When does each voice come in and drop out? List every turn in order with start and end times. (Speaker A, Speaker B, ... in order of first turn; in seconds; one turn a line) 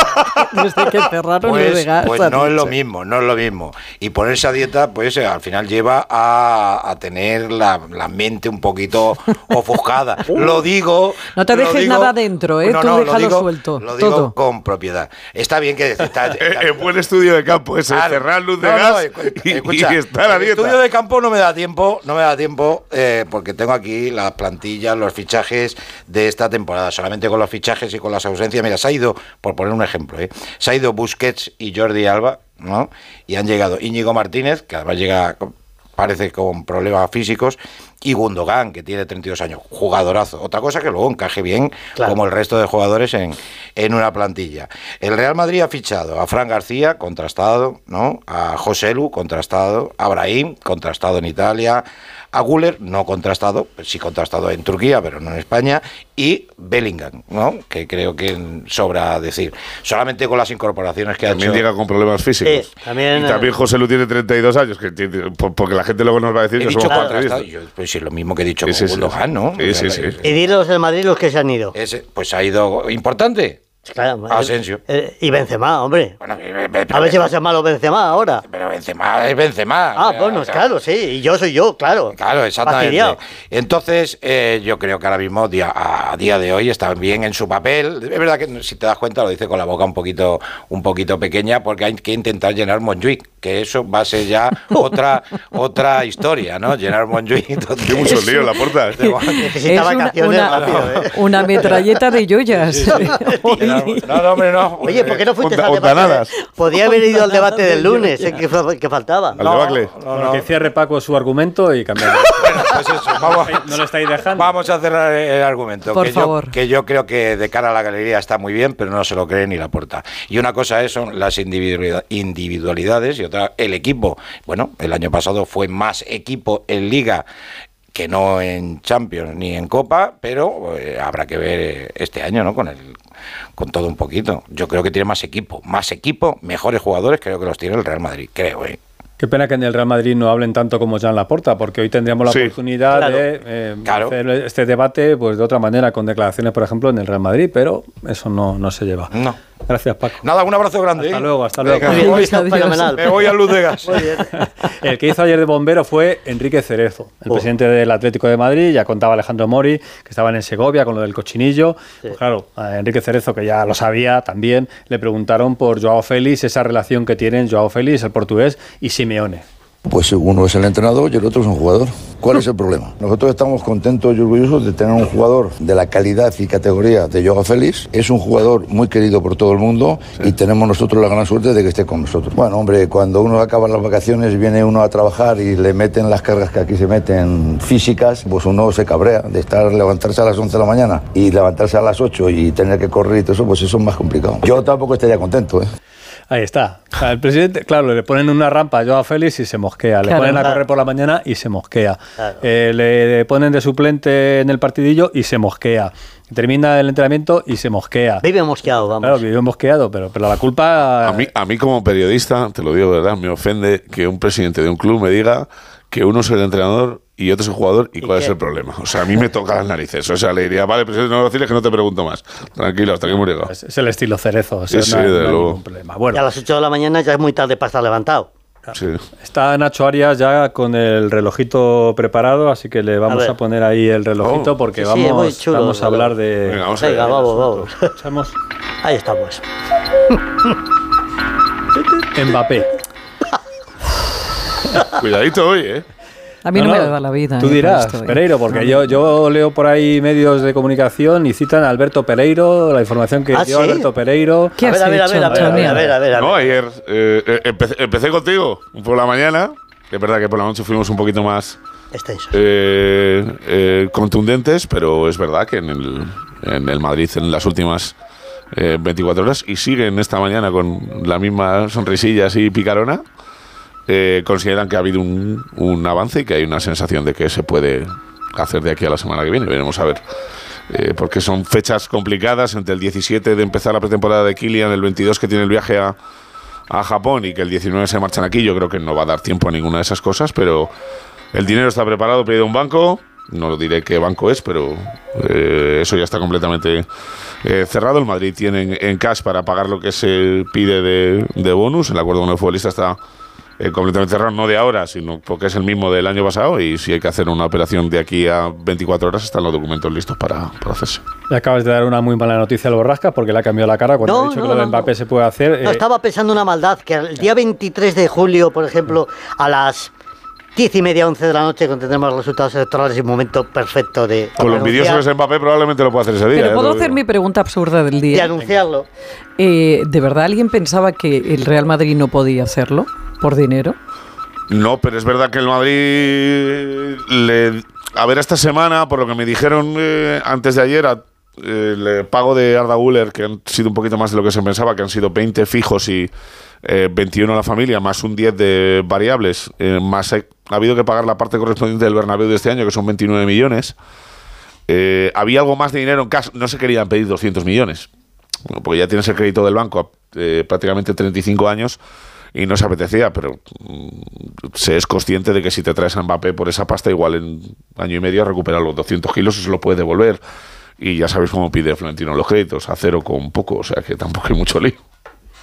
Speaker A: 0.5-2.8
Speaker B: 1.4-17.0
Speaker A: 10.2-10.7
Speaker A: 11.3-14.3
Speaker C: 16.3-20.8
Speaker B: 17.9-61.7
Speaker C: 61.2-67.5
Speaker D: 62.4-63.5
Speaker B: 66.6-70.5
Speaker D: 66.9-67.1
Speaker C: 68.6-70.2
Speaker D: 70.2-71.8
Speaker B: 71.8-73.7
Speaker D: 73.9-76.2
Speaker B: 74.3-74.8
Speaker B: 76.2-77.3
Speaker D: 76.9-78.4
Speaker B: 78.2-80.7
Speaker D: 80.0-83.2
Speaker B: 82.1-98.3
Speaker C: 97.8-99.0
Speaker A: 98.2-104.5
Speaker B: 98.9-99.4
Speaker D: 99.3-102.1
Speaker B: 100.5-101.7
Speaker E: 102.7-103.1
Speaker B: 103.5-105.3
Speaker D: 104.8-109.4
Speaker C: 105.0-106.3
Speaker A: 106.7-108.4
Speaker C: 109.4-109.9
Speaker B: 109.4-110.5
Speaker E: 110.1-112.6
Speaker B: 112.4-113.8
Speaker E: 113.4-114.5
Speaker B: 114.3-127.3
Speaker A: 115.9-116.6
Speaker B: 127.9-132.9
Speaker B: 133.6-138.8
Speaker E: 139.2-149.1
Speaker C: 142.3-142.5
Speaker D: 142.9-143.2
Speaker B: 143.8-144.2
Speaker E: 149.7-150.2
Speaker B: 150.2-152.4
Speaker E: 151.0-152.1
Speaker D: 151.8-154.3
Speaker A: 151.9-153.0
Speaker B: 153.0-154.0
Speaker E: 154.3-169.4
Speaker F: 169.8-195.7
Speaker E: 196.3-208.3
Speaker A: 200.0-200.4
Speaker D: 208.2-209.2
Speaker E: 209.0-211.3
Speaker C: 211.0-223.5
Speaker D: 218.0-218.3
Speaker E: 223.1-226.2
Speaker C: 224.7-225.6
Speaker D: 226.1-228.3
Speaker E: 228.7-238.4
Speaker C: 228.8-229.0
Speaker D: 233.1-233.3
Speaker C: 234.2-234.6
Speaker D: 234.8-236.2
Speaker C: 236.5-237.1
Speaker D: 236.8-237.9
Speaker D: 238.8-239.4
Speaker D: 240.1-240.5
Speaker E: 242.1-242.7
Speaker C: 244.9-245.8
Speaker A: 246.4-248.8
Speaker E: 246.6-254.6
Speaker D: 253.3-253.8
Speaker A: 254.6-255.9
Speaker D: 254.6-256.5
Speaker E: 255.4-255.8
Speaker C: 256.1-261.6
Speaker D: 261.9-262.4
Speaker C: 262.3-267.9
Speaker C: 268.5-273.0
Speaker C: 273.9-280.0
Speaker C: 280.7-286.0
Speaker C: 286.7-290.7
Speaker C: 291.3-296.9
Speaker C: 297.4-303.0
Speaker C: 303.6-311.0
Speaker E: 311.3-315.8
Speaker D: 314.1-314.9
Speaker D: 315.6-319.9
Speaker D: 320.6-325.1
Speaker C: 324.4-327.0
Speaker A: 326.3-328.5
Speaker D: 328.1-328.9
Speaker A: 329.4-333.8
Speaker C: 334.5-346.1
Speaker C: 346.6-353.8
Speaker C: 354.7-357.9
Speaker C: 358.5-361.8
Speaker C: 362.4-370.2
Speaker C: 370.8-374.8